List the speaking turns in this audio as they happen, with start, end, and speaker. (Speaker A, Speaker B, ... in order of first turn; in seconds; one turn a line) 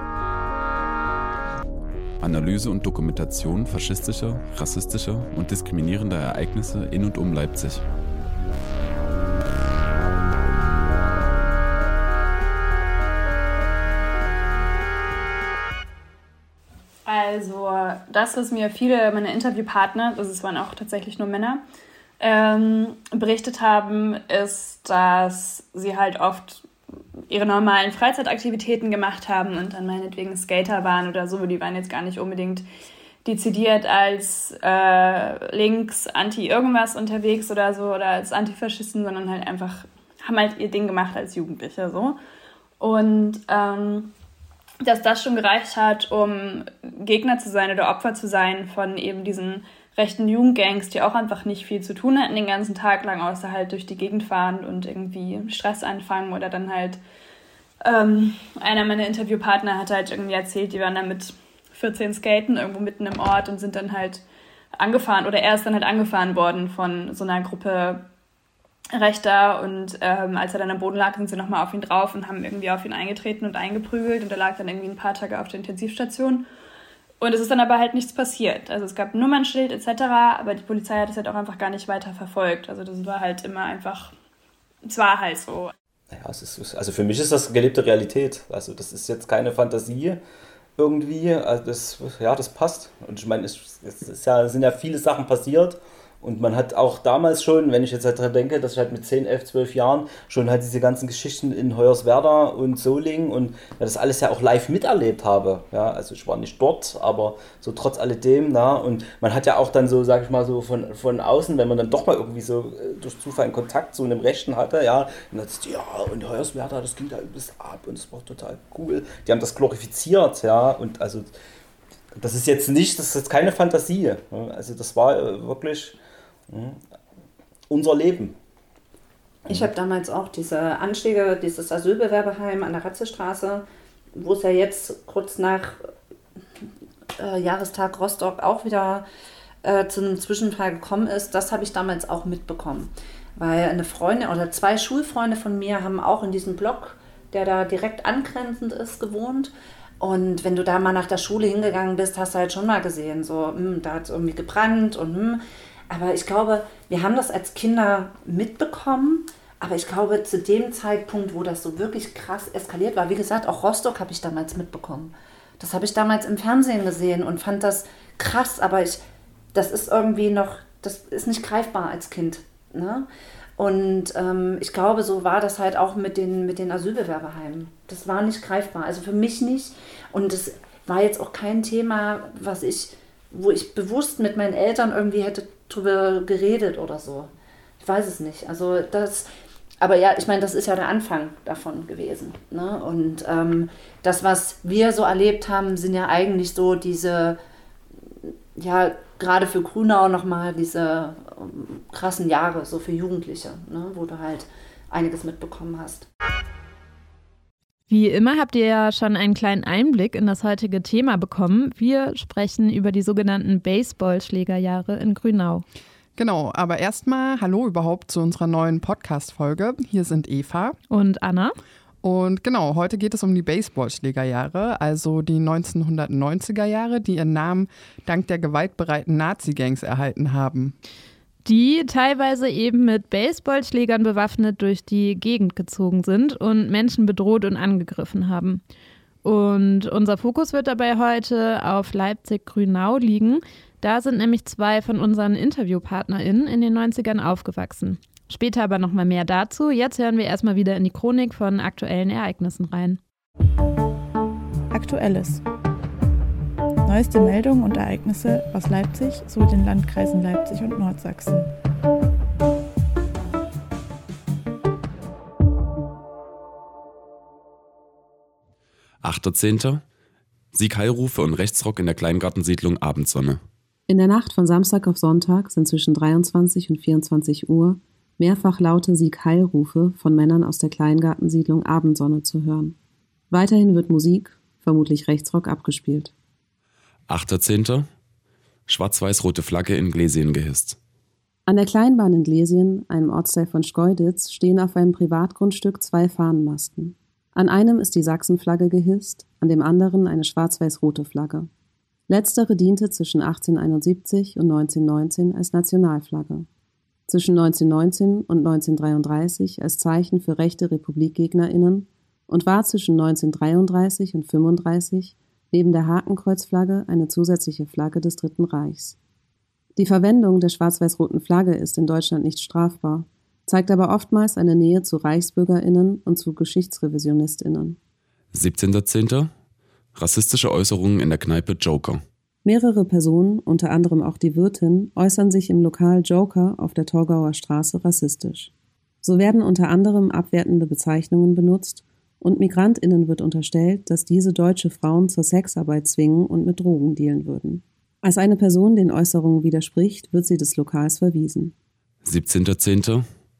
Speaker A: 2.2-7.8
Speaker B: 17.1-21.6
Speaker B: 22.2-26.6
Speaker B: 27.3-32.6
Speaker B: 33.2-42.2
Speaker B: 42.8-44.1
Speaker B: 44.8-57.0
Speaker B: 57.8-64.2
Speaker B: 64.8-68.0
Speaker B: 68.9-76.4
Speaker B: 77.2-84.1
Speaker B: 84.8-85.7
Speaker C: 86.1-90.2
Speaker C: 90.8-121.3
Speaker C: 122.2-126.0
Speaker C: 126.5-126.8
Speaker C: 127.7-128.3
Speaker D: 129.5-133.6
Speaker D: 134.1-135.8
Speaker D: 137.2-139.0
Speaker D: 139.6-169.0
Speaker D: 169.5-173.1
Speaker D: 173.6-189.3
Speaker D: 189.8-197.4
Speaker D: 198.6-206.1
Speaker E: 207.9-215.6
Speaker F: 216.2-220.7
Speaker E: 220.9-221.5
Speaker F: 222.0-230.7
Speaker E: 231.4-238.6
Speaker E: 239.2-253.0
Speaker G: 254.7-255.4
Speaker G: 256.8-261.5
Speaker A: 269.0-269.8
Speaker A: 270.5-273.4
Speaker H: 273.9-282.8
Speaker H: 283.3-286.1
Speaker A: 287.1-287.9
Speaker A: 288.7-290.8
Speaker H: 291.5-301.5
Speaker H: 302.1-306.5
Speaker H: 307.1-318.9
Speaker H: 319.8-327.8
Speaker A: 328.3-329.3
Speaker A: 329.9-332.0
Speaker H: 332.4-338.5
Speaker H: 339.0-351.5
Speaker A: 352.0-353.0